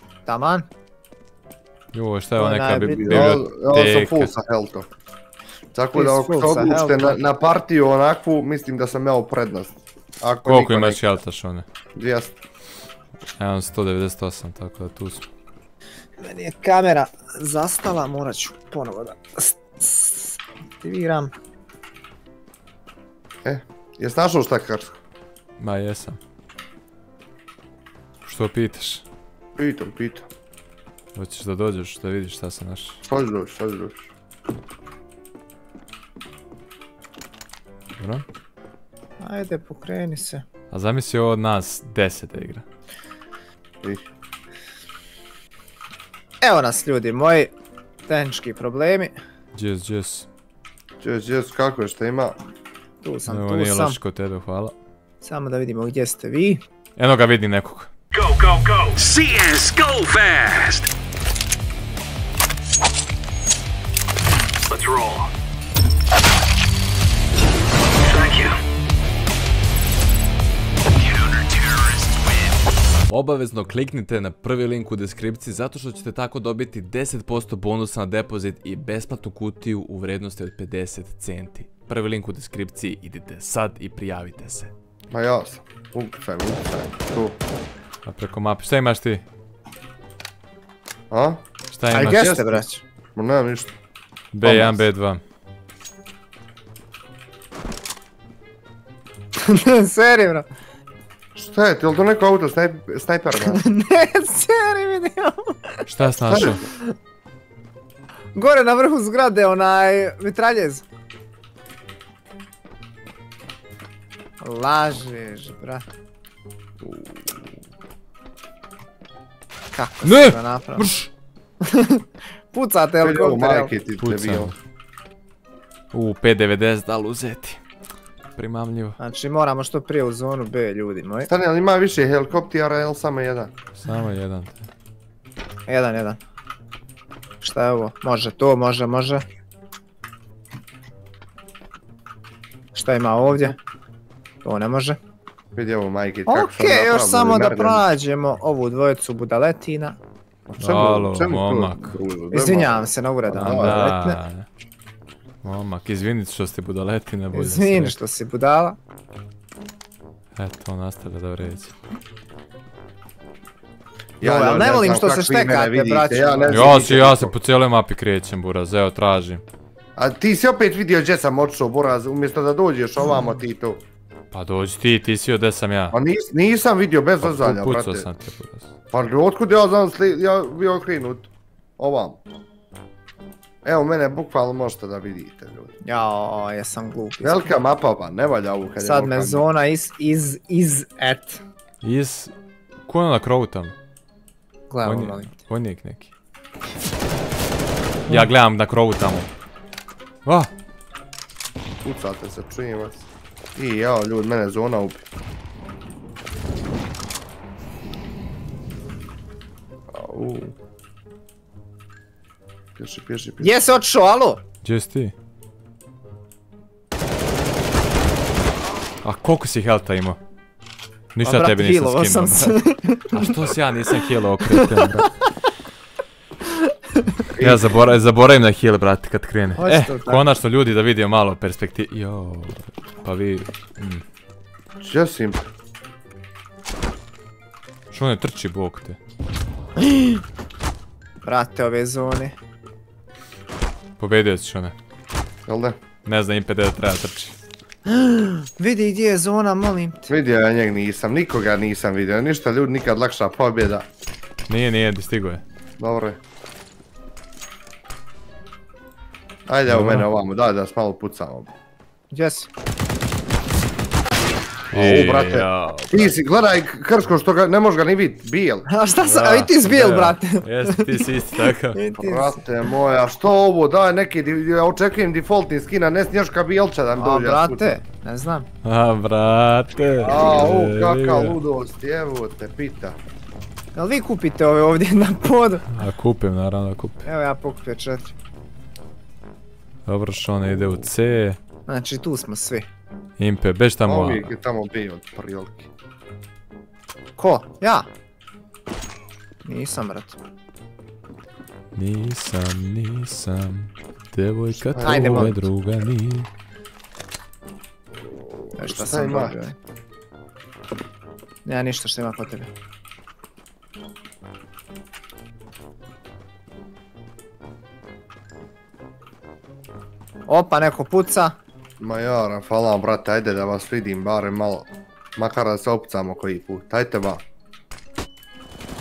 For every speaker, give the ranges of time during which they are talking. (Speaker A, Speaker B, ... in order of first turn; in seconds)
Speaker A: 0.2-0.7, 2.4-3.4, 5.9-7.2, 16.2-21.3, 39.2-40.4, 46.4-47.5, 48.1-49.1, 53.0-54.0, 55.2-56.6, 91.9-92.8, 99.4-100.5, 103.5-106.9, 108.3-110.8, 114.4-115.8, 119.7-120.9, 121.6-123.7, 129.0-131.3, 135.7-136.2, 137.4-139.2, 142.7-143.6, 144.4-145.0, 146.3-150.0, 152.3-154.2, 157.3-158.8, 164.2-166.8, 185.8-187.5, 188.8-191.4, 194.7-195.3, 213.4-214.4, 221.2-223.5, 224.5-224.7, 229.6-230.2, 241.2-242.3, 247.9-250.1, 262.1-262.5, 268.7-271.0, 271.7-272.4, 277.0-278.5, 283.7-285.7, 287.0-288.1, 291.7-292.7, 297.2-297.9, 299.4-300.2, 304.8-305.4, 308.6-309.6, 311.4-312.5, 320.2-321.4
Speaker B: 1.9-4.3, 10.4-11.6, 13.4-15.2, 25.6-26.2, 28.2-29.0, 31.1-33.0, 38.0-38.2, 40.7-42.6, 49.5-50.3, 53.2-54.7, 57.0-57.9, 73.1-84.7, 88.0-89.2, 91.7-92.4, 94.3-95.2, 105.9-106.7, 120.0-121.1, 124.0-124.5, 125.9-127.6, 128.3-129.0, 133.8-134.7, 150.6-152.0, 153.3-154.4, 155.4-157.9, 160.3-161.7, 166.5-169.4, 174.3-176.0, 177.2-178.7, 191.8-192.3, 192.8-193.7, 194.8-196.1, 198.1-199.3, 214.6-215.1, 219.0-220.2, 221.1-222.6, 223.1-225.1, 227.4-234.0, 237.9-239.0, 244.0-244.7, 246.0-247.3, 254.5-255.4, 259.7-260.1, 264.7-266.2, 269.0-271.8, 278.6-281.4, 285.7-287.0, 289.9-291.4, 293.2-294.3, 301.7-306.3
Speaker C: 3.0-4.9, 5.7-11.0, 11.9-12.4, 23.4-25.0, 29.6-30.3, 33.1-34.1, 51.0-52.4, 85.1-87.4, 91.1-91.4, 92.0-92.6, 93.2-93.7, 94.4-94.8, 101.3-103.6, 106.3-106.6, 116.8-117.4, 123.0-124.5, 131.3-133.5, 145.5-147.9, 150.5-153.8, 164.2-167.3, 169.9-173.8, 175.9-178.1, 178.9-182.2, 183.6-185.7, 187.2-189.4, 201.8-205.0, 209.9-210.5, 212.8-213.5, 227.4-227.7, 234.8-235.5, 245.5-245.8, 250.1-253.9, 255.8-256.2, 259.5-261.5, 264.7-268.7, 272.0-277.8, 280.0-283.0, 293.8-295.7, 304.7-305.3, 308.1-309.4, 321.8-327.2
Speaker D: 58.1-60.9, 64.7-65.3, 68.0-68.6